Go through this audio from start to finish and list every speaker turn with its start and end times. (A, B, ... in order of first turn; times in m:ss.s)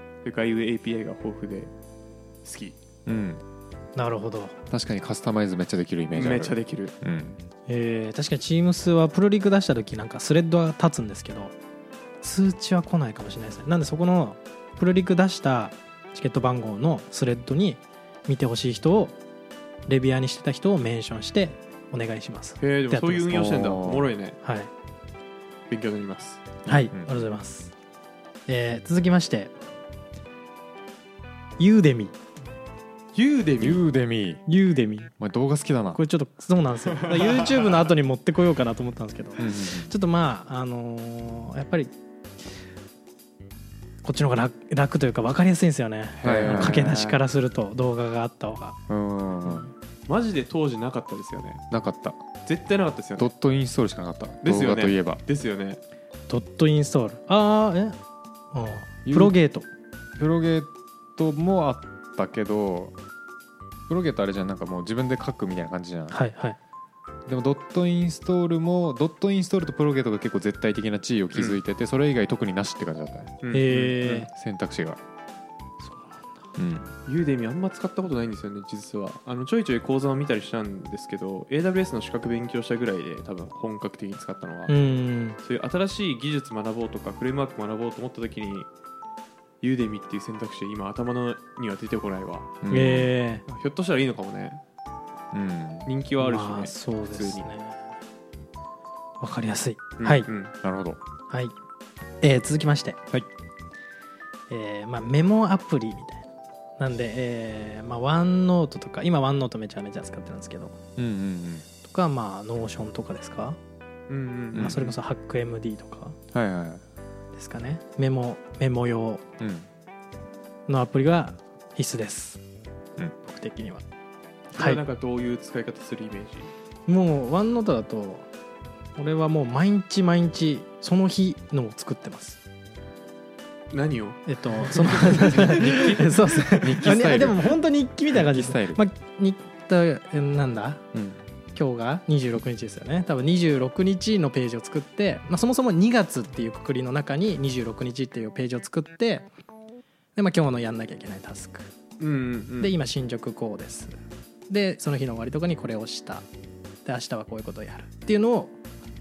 0:00.2-0:01.7 A
0:02.4-0:02.8 A
0:03.0-0:03.4 B
0:03.9-0:04.6 C
0:04.7-0:07.4 B
0:06.1-0:06.9 A
0:07.7-0:11.5 C
0:12.2-0:19.2 C
0:19.9-0:23.5 C
0:22.6-0:24.4 A
0:23.3-0:24.1 B
0:24.4-0:24.7 C
0:25.7-0:26.4 A
0:26.6-0:27.7 C
0:26.9-0:27.3 B
0:28.5-0:29.5 C
0:31.6-0:32.2 C
0:33.1-0:33.8 A
0:33.6-0:34.4 B
0:34.5-0:35.1 C
0:35.2-0:36.0 B
0:35.9-0:41.9 C
0:36.9-0:37.8 A
0:39.4-0:39.9 B
0:44.0-0:48.8 C
0:46.1-0:47.2 A
0:46.2-0:47.0 B
0:48.9-0:49.7 B
0:49.4-0:49.7 C
0:50.1-0:51.6 A
0:51.7-0:52.2 B
0:52.4-0:53.3 A
0:53.2-0:55.2 B
0:54.4-0:55.8 A
0:56.3-0:58.0 C
0:58.5-0:59.7 C
0:59.0-0:59.4 B
1:00.2-1:03.0 B
1:03.9-1:06.2 B
1:06.1-1:06.6 C
1:07.3-1:13.4 B
1:11.3-1:11.6 A
1:13.4-1:14.2 A
1:13.5-1:14.3 C
1:14.3-1:15.0 B
1:15.8-1:16.4 C
1:16.6-1:16.9 B
1:17.0-1:24.7 A
1:24.7-1:25.4 C
1:25.4-1:28.7 A
1:29.6-1:32.5 A
1:32.6-1:33.1 B
1:32.7-1:33.4 C
1:33.5-1:34.6 A
1:35.3-1:35.9 B
1:35.8-1:37.4 A
1:36.2-1:37.9 C
1:39.2-1:40.3 C
1:40.0-1:40.5 A
1:40.6-1:41.0 B
1:42.2-1:43.0 C
1:44.5-1:46.3 C
1:46.8-1:50.8 C
1:51.0-1:51.6 B
1:51.8-1:53.6 C
1:54.1-1:54.9 A
1:54.5-1:54.8 B
1:54.6-1:56.2 C
1:56.3-1:56.8 B
1:57.3-1:59.2 C
1:59.4-1:59.7 B
2:00.7-2:02.4 C
2:03.2-2:03.8 C
2:04.5-2:06.5 A
2:06.9-2:08.3 C
2:09.0-2:12.4 C
2:13.7-2:16.0 A
2:14.3-2:20.8 C
2:15.3-2:17.6 B
2:18.1-2:18.8 B
2:20.9-2:21.2 B
2:21.5-2:29.3 C
2:30.2-2:31.7 C
2:32.0-2:32.7 A
2:32.6-2:33.9 C
2:34.5-2:36.2 C
2:36.8-2:38.6 C